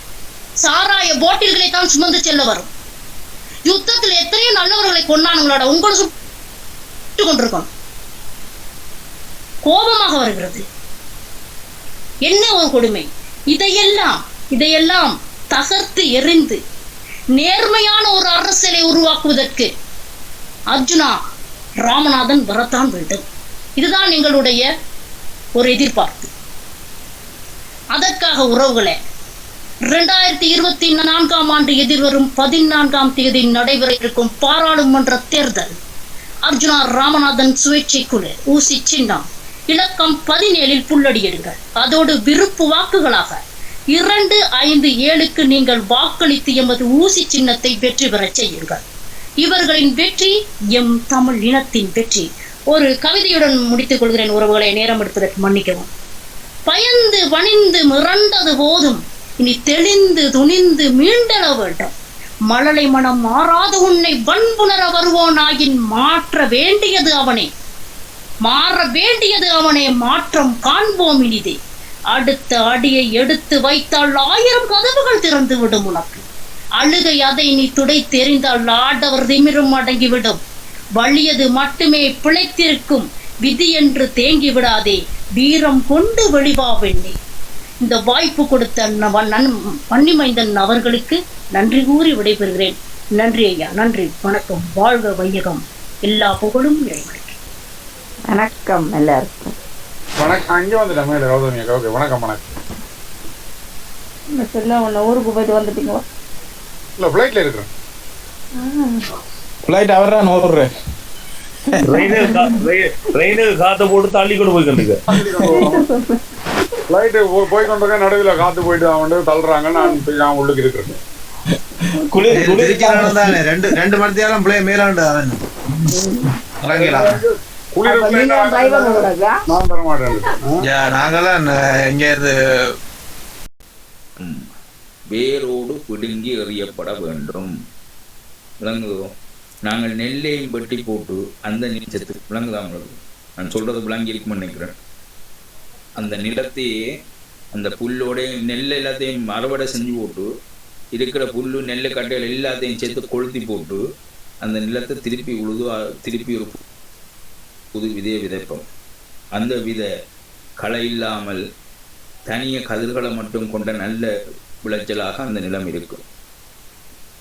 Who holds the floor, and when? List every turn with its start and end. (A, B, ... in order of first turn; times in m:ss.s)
0:00.6-0:02.7 A
0:03.7-0:06.1 A
0:07.2-0:07.7 A
0:09.6-0:10.6 A
0:12.2-0:16.6 A
0:17.4-0:19.7 A
0:20.7-0:21.2 A
0:21.8-0:23.2 A
0:23.8-0:24.6 A
0:25.6-0:26.3 A
0:27.9-0:28.9 A
0:29.9-0:35.7 A
0:36.5-0:43.4 A
0:43.9-0:48.8 A
0:49.4-0:55.9 A
0:56.7-1:01.9 A
1:02.5-1:07.5 A
1:08.5-1:11.6 A
1:12.1-1:16.2 A
1:16.8-1:20.4 A
1:21.0-1:27.2 A
1:27.8-1:37.4 A
1:38.3-1:39.5 B
1:40.2-1:42.5 C
1:44.3-1:46.0 B
1:47.0-1:47.7 C
1:48.6-1:49.0 B
1:49.7-1:50.7 D
1:51.8-1:52.5 B
1:51.9-1:55.0 E
1:55.1-1:55.8 C
1:55.4-1:56.2 B
1:56.9-2:01.0 C
1:59.7-2:00.0 B
2:02.3-2:03.2 D
2:02.3-2:05.4 F
2:05.9-2:06.3 B
2:06.6-2:07.1 F
2:06.7-2:10.6 C
2:06.9-2:07.2 B
2:07.8-2:09.4 B
2:10.6-2:12.7 F
2:14.2-2:14.4 G
2:15.1-2:17.5 G
2:18.6-2:19.0 G
2:19.7-2:24.7 G
2:26.0-2:26.8 G
2:27.5-2:30.3 G
2:31.0-2:33.8 G
2:34.4-2:36.6 G
2:37.7-2:38.6 G
2:39.4-2:39.9 G
2:40.6-2:41.4 G
2:42.3-2:44.1 G
2:44.6-2:46.0 G